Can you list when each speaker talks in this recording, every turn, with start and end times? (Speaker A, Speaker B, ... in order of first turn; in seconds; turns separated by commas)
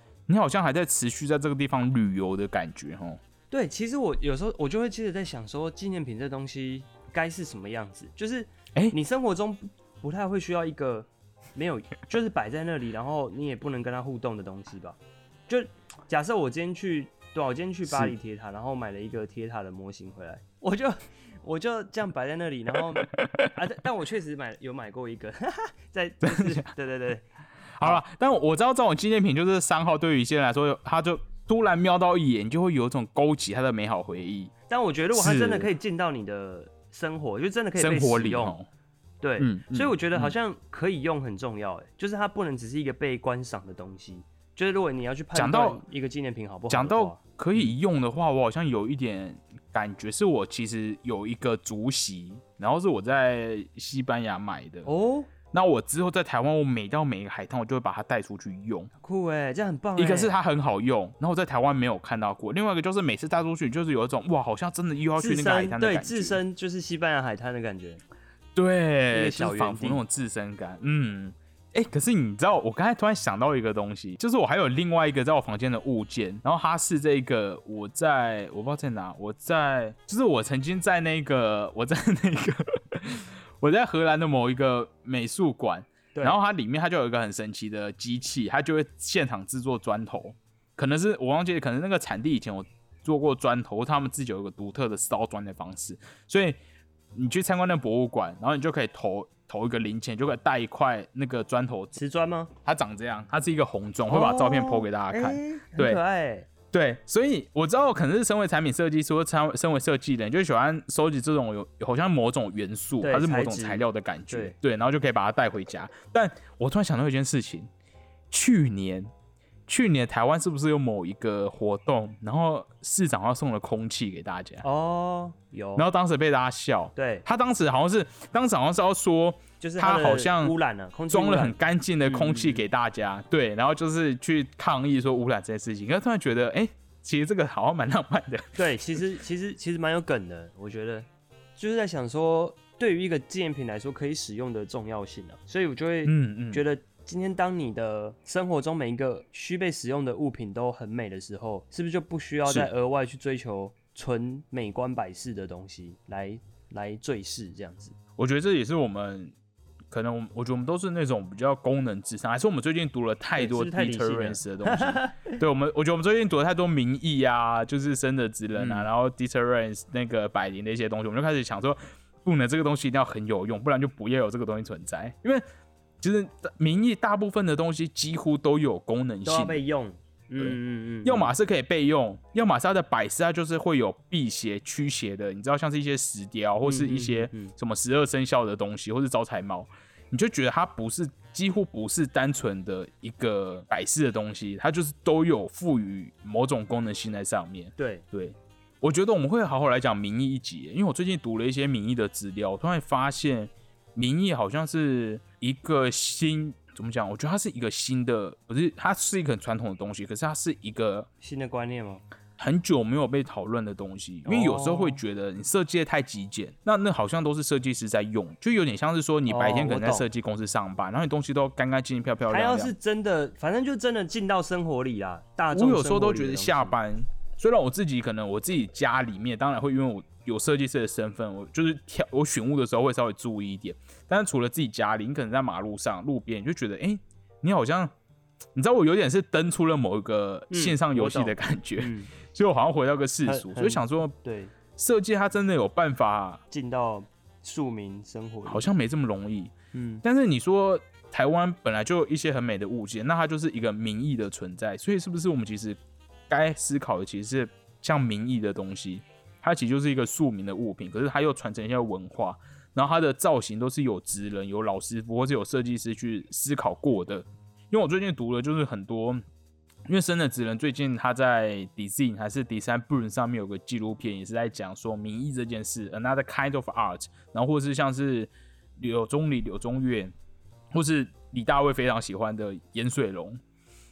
Speaker A: 0.3-3.2, Speaker B: 3.5-27.2, Speaker A: 17.9-18.1, Speaker A: 23.1-23.5, Speaker A: 26.2-26.7, Speaker A: 27.8-34.5, Speaker B: 34.7-38.5, Speaker A: 35.1-35.7, Speaker A: 37.8-38.7, Speaker B: 39.2-47.7, Speaker A: 39.4-40.3, Speaker A: 45.3-45.8, Speaker A: 46.7-54.9, Speaker B: 54.8-55.3, Speaker A: 55.5-58.9, Speaker B: 59.0-60.3, Speaker A: 60.0-66.4, Speaker B: 65.2-68.0, Speaker A: 68.5-96.6, Speaker B: 69.1-70.0, Speaker A: 97.1-102.0, Speaker B: 102.0-102.5, Speaker A: 102.6-106.0, Speaker B: 104.1-106.5, Speaker A: 106.7-117.7, Speaker B: 113.0-114.5, Speaker A: 118.3-119.1, Speaker A: 119.7-124.6, Speaker B: 124.6-125.8, Speaker A: 125.8-130.5, Speaker B: 127.0-127.2, Speaker B: 129.6-131.5, Speaker A: 131.1-138.6, Speaker B: 132.1-132.6, Speaker B: 138.6-157.9, Speaker A: 146.0-146.6, Speaker A: 158.2-159.3, Speaker A: 159.9-175.4, Speaker B: 163.4-165.3, Speaker B: 168.5-168.9, Speaker A: 176.0-179.6, Speaker B: 179.2-181.3, Speaker A: 180.4-211.1, Speaker B: 186.6-187.5, Speaker B: 197.8-198.0, Speaker B: 211.2-212.0, Speaker A: 212.4-222.7, Speaker B: 214.2-215.0, Speaker B: 219.3-220.1, Speaker B: 222.3-226.8, Speaker A: 225.5-237.9, Speaker A: 238.5-244.2, Speaker B: 240.5-242.1, Speaker B: 243.2-244.5, Speaker A: 244.7-246.4, Speaker B: 246.5-248.7, Speaker A: 248.4-249.5, Speaker B: 249.7-250.0, Speaker A: 250.0-269.2, Speaker A: 269.9-280.1, Speaker A: 280.7-283.4